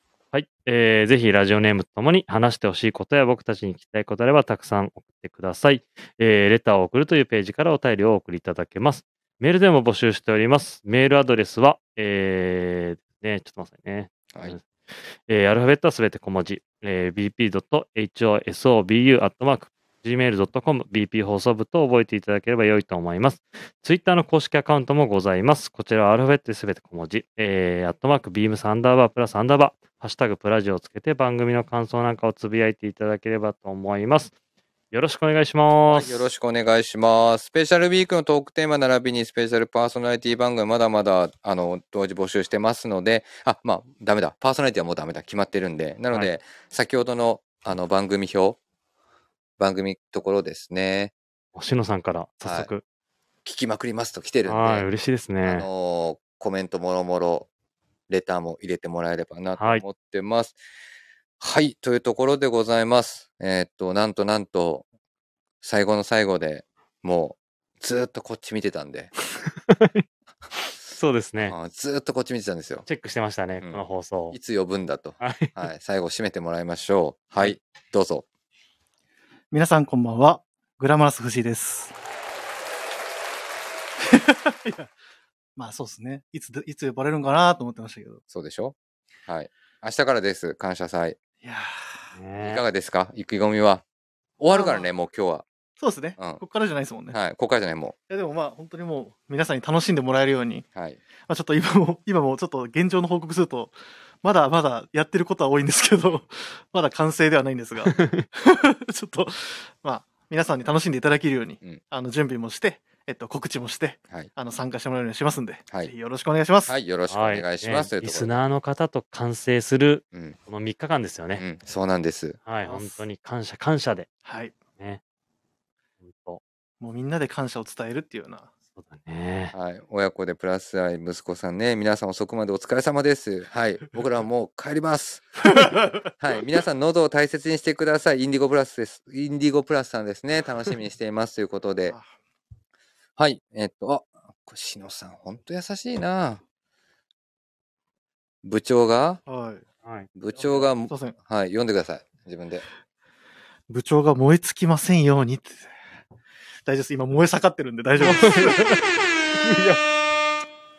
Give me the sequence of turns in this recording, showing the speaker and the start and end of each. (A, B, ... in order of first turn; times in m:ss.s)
0:00.3-0:14.6 A
0:15.3-0:34.3 A
0:34.9-0:36.3 A
0:35.9-0:48.6 B
0:49.6-0:51.1 B
0:51.6-0:52.8 A
0:52.4-0:52.7 B
0:53.4-0:54.9 B
0:54.5-0:55.7 A
0:55.4-0:57.5 B
0:58.1-1:00.6 B
0:59.6-0:59.8 A
1:01.4-1:04.9 B
1:05.6-1:09.1 B
1:09.4-1:10.0 A
1:10.6-1:11.6 A
1:11.5-1:12.9 B
1:12.8-1:14.4 A
1:13.6-1:18.2 B
1:15.2-1:15.7 A
1:19.5-1:21.9 C
1:24.0-1:24.9 C
1:25.6-1:28.2 C
1:28.3-1:28.8 B
1:29.3-1:31.2 B
1:31.4-1:32.1 C
1:32.2-1:32.6 A
1:32.4-1:33.8 B
1:34.4-1:35.4 B
1:34.5-1:34.9 C
1:35.8-1:37.2 C
1:37.1-1:38.0 B
1:38.1-1:40.7 C
1:41.3-1:56.8 C
1:47.9-1:48.3 A
1:56.7-1:58.4 B
1:57.1-2:01.4 A
2:01.4-2:02.4 B
2:02.5-2:04.1 A
2:02.7-2:03.0 C
2:04.2-2:04.6 C
2:06.0-2:06.4 A
2:06.8-2:08.5 C
2:08.8-2:09.5 A
2:09.5-2:22.0 B
2:23.2-2:26.4 B
2:28.4-2:29.2 B
2:29.3-2:29.6 C
2:30.2-2:32.6 B
2:30.4-2:31.2 C
2:33.7-2:35.7 C
2:36.6-2:38.6 C
2:38.0-2:38.9 A
2:39.4-2:39.8 A